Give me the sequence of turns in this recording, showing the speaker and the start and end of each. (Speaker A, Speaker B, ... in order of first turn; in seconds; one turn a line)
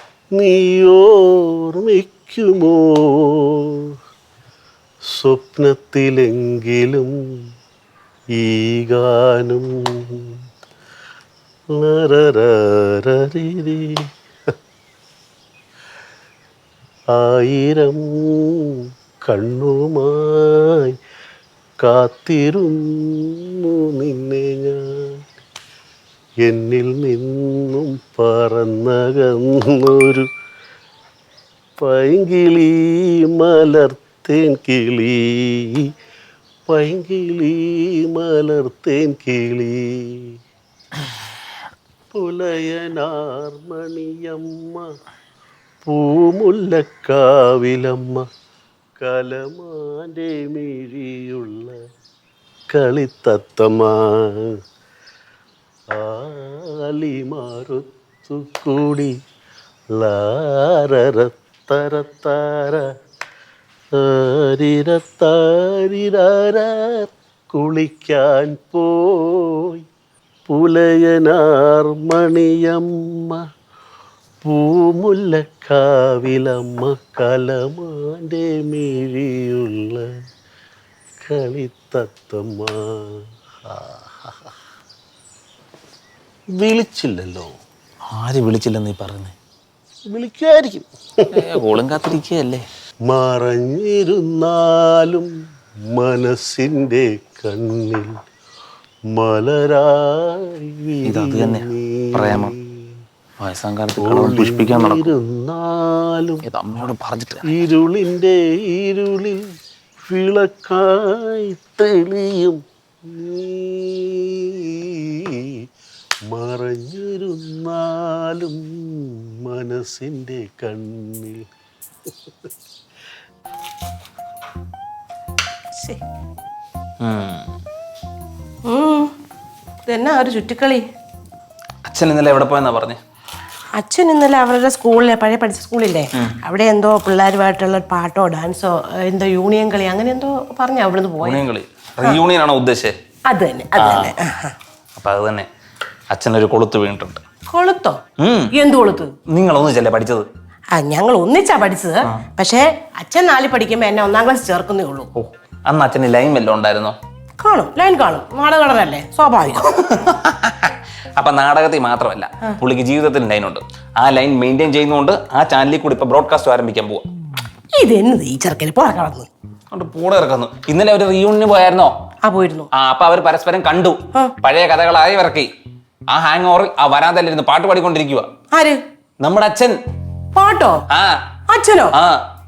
Speaker A: 0.3-3.8
Speaker A: 5.1-7.2
Speaker A: 8.3-10.3
Speaker A: 11.7-14.0
Speaker A: 17.1-20.9
Speaker A: 21.8-25.1
Speaker A: 26.4-30.3
Speaker A: 31.8-35.8
Speaker A: 36.7-40.2
Speaker A: 42.1-44.9
Speaker A: 45.8-48.3
Speaker A: 49.0-51.8
Speaker A: 52.7-54.5
Speaker A: 55.9-59.1
Speaker A: 59.9-62.9
Speaker A: 63.9-69.8
Speaker A: 70.5-73.4
Speaker A: 74.4-80.1
Speaker A: 81.2-84.3
Speaker A: 86.6-87.5
Speaker B: 88.1-89.3
Speaker A: 90.1-91.5
Speaker B: 91.3-92.7
Speaker A: 93.1-95.3
Speaker A: 95.9-98.2
Speaker A: 99.1-102.9
Speaker B: 101.0-102.5
Speaker B: 103.4-105.1
Speaker A: 104.0-106.4
Speaker B: 106.4-107.5
Speaker A: 107.5-109.5
Speaker A: 110.1-115.5
Speaker A: 116.3-121.4
Speaker B: 127.0-127.5
Speaker C: 128.7-129.1
Speaker C: 129.9-130.8
Speaker B: 131.8-133.0
Speaker C: 133.8-141.4
Speaker B: 141.2-142.9
Speaker C: 143.3-144.5
Speaker B: 143.8-144.1
Speaker B: 144.9-145.5
Speaker B: 146.1-147.2
Speaker C: 147.5-148.0
Speaker B: 148.2-148.5
Speaker C: 148.5-149.1
Speaker B: 149.3-150.2
Speaker C: 150.7-155.1
Speaker B: 155.1-156.9
Speaker C: 157.4-160.0
Speaker B: 159.9-167.0
Speaker C: 167.8-169.3
Speaker B: 169.7-171.9
Speaker C: 172.2-172.7
Speaker B: 172.7-175.5
Speaker B: 176.1-178.3
Speaker C: 178.5-178.8
Speaker B: 179.2-179.7
Speaker C: 180.3-180.8
Speaker B: 180.9-181.2
Speaker C: 181.5-181.9
Speaker B: 181.9-182.2